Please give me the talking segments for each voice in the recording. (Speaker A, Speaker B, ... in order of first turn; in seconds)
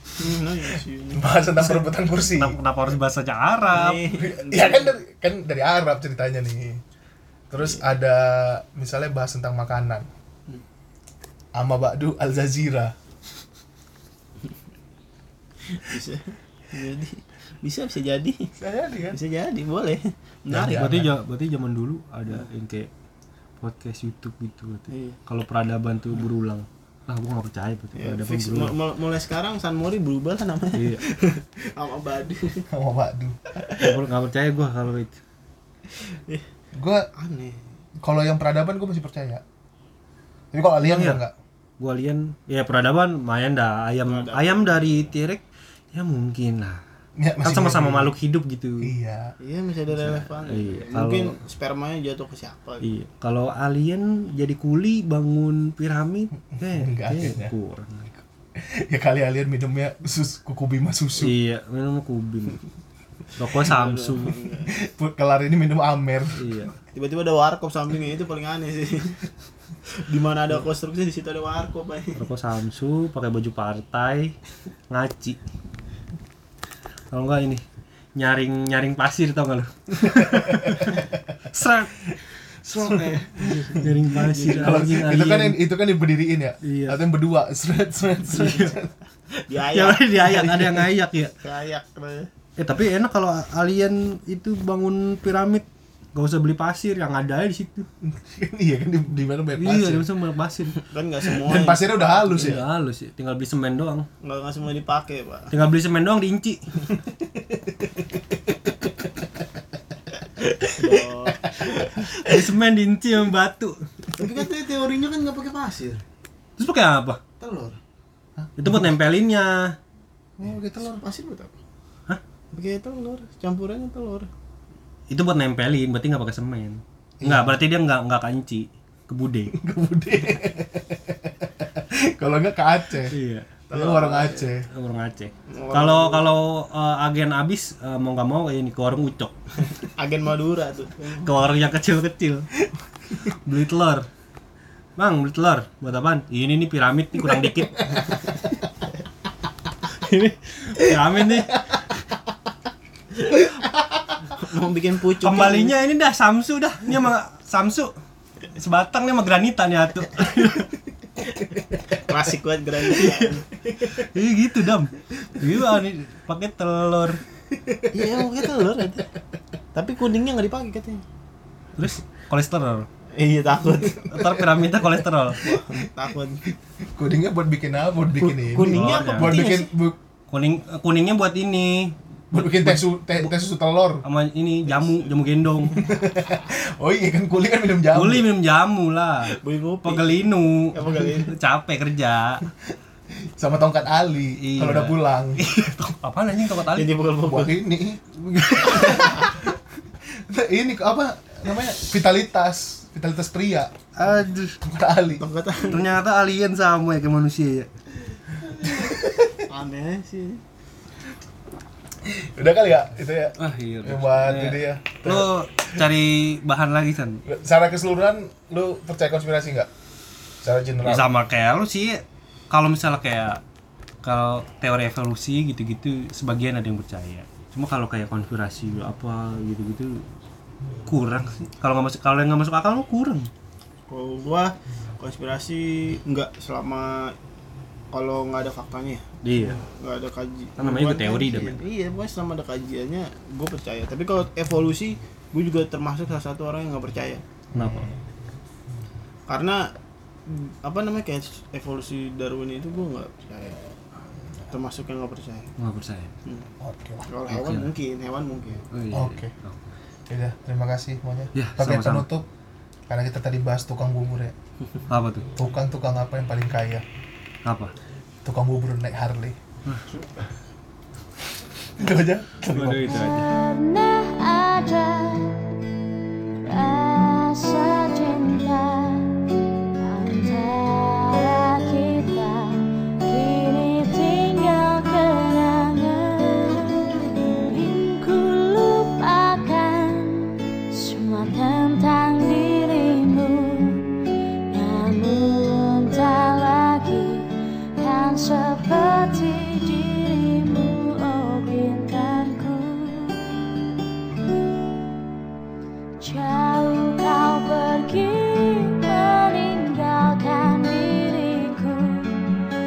Speaker A: 0.2-1.3, 3.7-4.9, 7.6-7.8, 15.7-18.5, 19.1-20.9, 24.9-25.2, 28.0-32.7, 33.6-33.9, 35.9-36.5, 37.1-37.7, 44.1-45.1, 49.4-52.9, 63.6-64.7, 66.9-69.3, 69.9-72.2, 83.3-85.2, 89.4-90.4, 91.4-92.3, 100.7-102.6, 104.2-105.5, 110.6-111.8, 114.1-116.0, 117.4-117.8, 120.4-121.6, 122.5-124.3, 133.7-134.5, 135.5-136.3, 139.7-141.3, 154.2-155.8, 162.0-163.5, 167.9-169.1, 169.7-171.0, 173.2-174.4, 175.3-176.4, 178.2-179.7, 189.3-191.3, 196.7-197.6, 198.6-199.3, 205.2-205.8, 209.4-210.4, 233.9-237.2, 237.9-247.2, 249.3-249.7, 250.3-253.6, 254.5-255.5, 257.1-258.6, 272.4-273.1
Speaker B: 1.1-2.6, 4.1-6.8, 7.5-10.1, 11.6-12.9, 18.6-19.2, 20.5-21.1, 32.7-33.6, 36.8-37.1, 38.0-39.4, 40.5-41.3, 47.2-48.1, 48.8-49.3, 56.5-57.5, 58.6-61.4, 64.7-66.5, 80.3-81.0, 82.8-83.2, 84.4-88.9, 90.2-90.8, 98.1-100.1, 101.3-102.6, 107.2-109.3, 110.7-112.4, 118.4-118.7, 120.4-120.8, 127.2-127.6, 129.5-133.2, 133.7-134.7, 151.5-151.8, 153.4-153.7, 167.5-168.1, 176.5-180.0, 182.3-184.0, 185.8-188.3, 193.1-195.4, 197.2-198.0, 198.7-199.5, 200.1-203.8, 204.6-205.2, 208.7-209.3, 212.0-215.8, 217.3-219.7, 220.4-221.1, 247.5-247.9, 256.6-257.1, 258.9-259.3, 260.1-262.3, 262.9-264.3, 265.4-266.9, 268.2-269.4, 271.8-272.5
Speaker C: 1.6-4.0, 20.7-22.9, 23.6-28.7, 33.8-35.2, 40.8-41.2, 41.8-46.8, 47.4-48.9, 49.9-51.4, 52.8-58.2, 61.2-62.6, 63.4-64.5, 66.4-66.7, 72.2-74.3, 74.9-75.4, 77.1-77.6, 78.2-85.6, 86.6-87.0, 88.3-88.8, 89.7-91.3, 92.6-97.9, 99.6-100.8, 102.3-104.1, 105.5-106.6, 112.0-113.9, 116.6-117.2, 118.6-119.8, 125.1-129.5, 133.1-133.6, 134.7-139.3, 141.2-142.5, 143.2-144.1, 145.0-148.4, 149.9-151.7, 155.2-157.9, 158.5-160.7, 163.0-163.3, 163.8-167.2, 171.8-172.9, 174.1-175.4, 178.6-179.5, 180.3-182.9, 184.0-185.8, 187.9-192.4, 194.4-196.9, 198.2-199.3, 204.0-204.6, 205.7-207.7, 213.4-217.2, 220.8-223.4, 224.0-230.0, 230.9-233.3, 239.2-239.6, 240.6-241.6, 247.5-247.9, 255.6-256.1, 257.3-257.7, 258.7-259.6, 261.4-262.1, 264.9-265.3, 267.4-267.7, 272.5-273.3
Speaker D: 272.8-275.6, 276.4-293.9, 294.5-303.2, 306.0-312.2